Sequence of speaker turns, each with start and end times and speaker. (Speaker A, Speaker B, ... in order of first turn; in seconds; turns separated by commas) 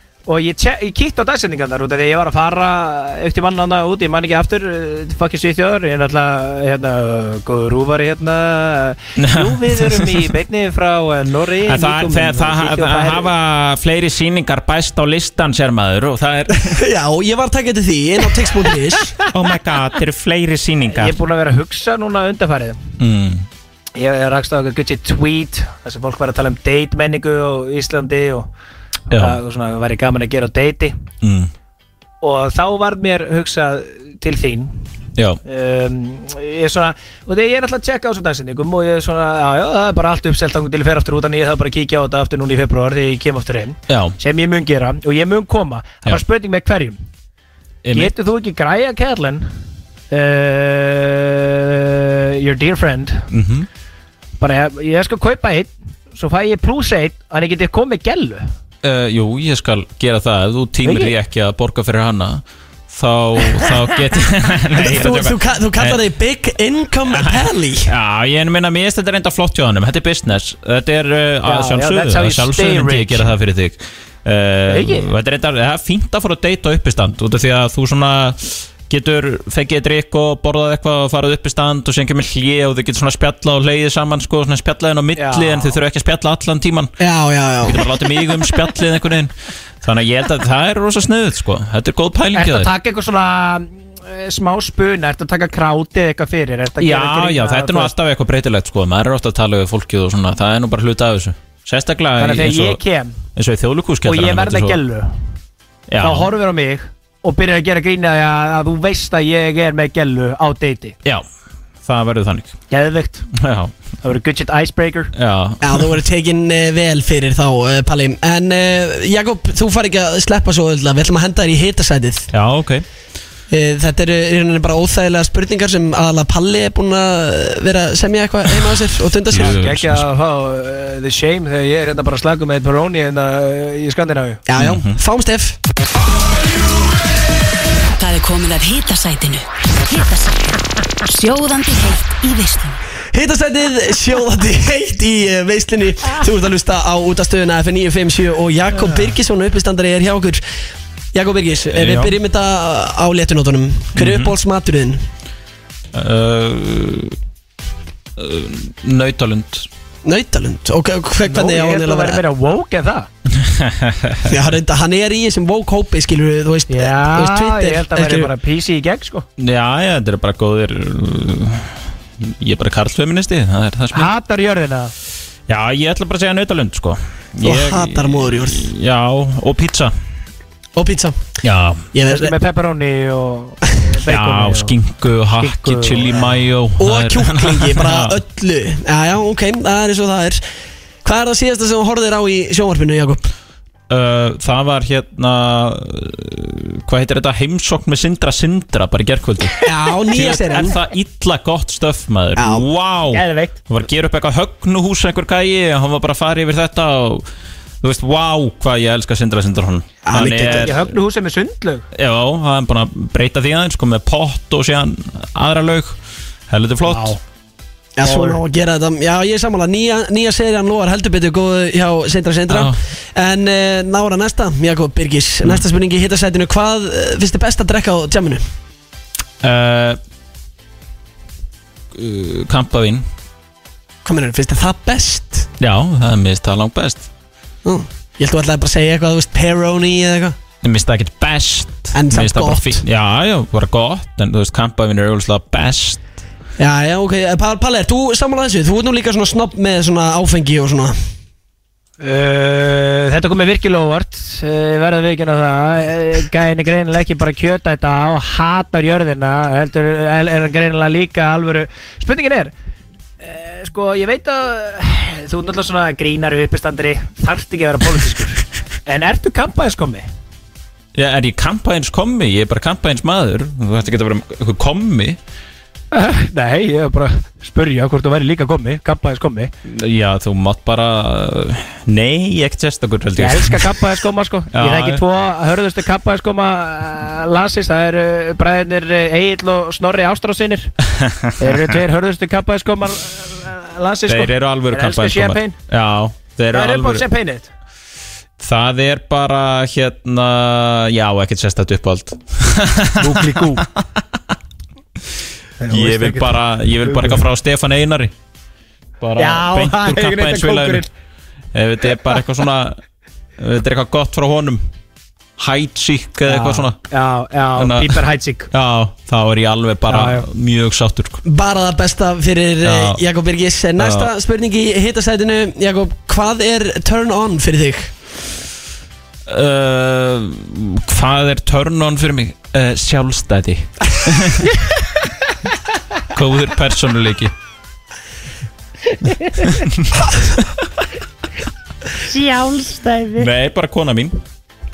Speaker A: 0.3-13.3, Speaker B: 9.2-10.3, Speaker B: 11.7-16.8, Speaker C: 16.5-19.2, Speaker B: 19.3-21.2, Speaker A: 20.9-22.9, Speaker B: 23.0-23.5, Speaker A: 23.9-28.5, Speaker B: 29.1-29.4, Speaker A: 29.1-30.9, Speaker B: 31.2-31.5, Speaker A: 32.2-34.8, Speaker A: 35.5-47.0, Speaker B: 43.9-44.2, Speaker B: 47.8-48.1, Speaker A: 47.9-49.5, Speaker A: 50.1-53.3, Speaker B: 53.3-53.7, Speaker A: 54.4-58.5, Speaker B: 58.8-66.0, Speaker A: 60.8-61.1, Speaker A: 63.5-63.7, Speaker C: 64.8-67.9, Speaker B: 67.1-86.9, Speaker A: 71.5-73.3, Speaker A: 74.7-75.1, Speaker A: 85.2-85.8, Speaker C: 87.0-87.8, Speaker B: 87.6-92.7, Speaker A: 92.3-97.9, Speaker B: 96.8-102.8, Speaker A: 102.2-103.2, Speaker B: 103.3-104.8, Speaker A: 104.0-105.2, Speaker B: 105.9-106.3, Speaker A: 106.0-111.0, Speaker B: 111.8-112.5, Speaker A: 112.7-113.3, Speaker B: 113.3-113.8, Speaker A: 114.0-115.1, Speaker B: 115.1-115.9, Speaker C: 115.6-122.3, Speaker B: 122.3-122.8, Speaker C: 123.5-129.6, Speaker B: 129.3-130.0, Speaker A: 129.3-134.4, Speaker C: 134.5-135.6, Speaker B: 134.6-135.0, Speaker D: 138.0-142.8, Speaker C: 143.1-150.4, Speaker C: 151.1-155.0, Speaker B: 151.7-152.2, Speaker B: 154.0-154.3, Speaker B: 155.9-157.2, Speaker B: 158.2-159.7, Speaker C: 160.1-162.2, Speaker A: 161.3-163.1, Speaker B: 163.3-164.4, Speaker C: 164.2-168.3, Speaker A: 166.7-169.3, Speaker B: 169.4-174.1, Speaker A: 173.9-174.9, Speaker B: 175.5-179.9, Speaker C: 177.4-178.7, Speaker C: 180.8-181.2, Speaker B: 181.4-181.9, Speaker C: 181.9-182.3, Speaker A: 182.1-184.8, Speaker B: 184.0-188.2, Speaker A: 185.4-186.4, Speaker C: 186.8-190.4, Speaker C: 191.0-193.2, Speaker B: 193.9-199.6, Speaker C: 199.6-200.8, Speaker B: 200.1-207.3, Speaker C: 202.4-202.7, Speaker A: 203.1-203.6, Speaker B: 207.8-210.9, Speaker C: 210.1-210.7, Speaker A: 210.2-211.9, Speaker B: 211.9-216.0, Speaker B: 216.5-217.2, Speaker A: 216.8-217.2, Speaker C: 218.0-228.4, Speaker A: 218.0-218.4, Speaker B: 222.5-222.8, Speaker B: 229.4-230.0, Speaker B: 231.9-233.1, Speaker C: 234.1-235.5, Speaker B: 235.6-237.1, Speaker C: 237.7-240.4, Speaker B: 240.6-246.0, Speaker C: 241.9-242.8, Speaker C: 246.6-250.9, Speaker A: 252.0-262.5, Speaker A: 263.2-270.1, Speaker B: 270.9-275.2, Speaker A: 275.9-279.5, Speaker B: 279.7-283.8, Speaker A: 283.2-290.7, Speaker B: 284.5-285.0, Speaker B: 290.9-291.7, Speaker A: 291.4-295.6, Speaker B: 294.1-297.1, Speaker A: 296.5-297.5, Speaker B: 298.4-304.2, Speaker A: 303.0-303.7, Speaker A: 305.6-306.3, Speaker B: 305.6-308.1, Speaker A: 306.9-307.2, Speaker B: 309.0-310.9, Speaker A: 309.2-310.9, Speaker B: 311.5-312.8, Speaker B: 313.4-314.6, Speaker B: 315.4-316.8, Speaker A: 316.3-318.5, Speaker B: 317.6-321.2, Speaker A: 319.9-320.3, Speaker C: 321.3-327.9, Speaker B: 322.6-323.0, Speaker B: 323.8-324.1, Speaker B: 329.3-334.5, Speaker B: 336.1-337.3, Speaker A: 339.1-339.4, Speaker B: 339.4-340.4, Speaker A: 342.0-343.3, Speaker B: 343.1-344.2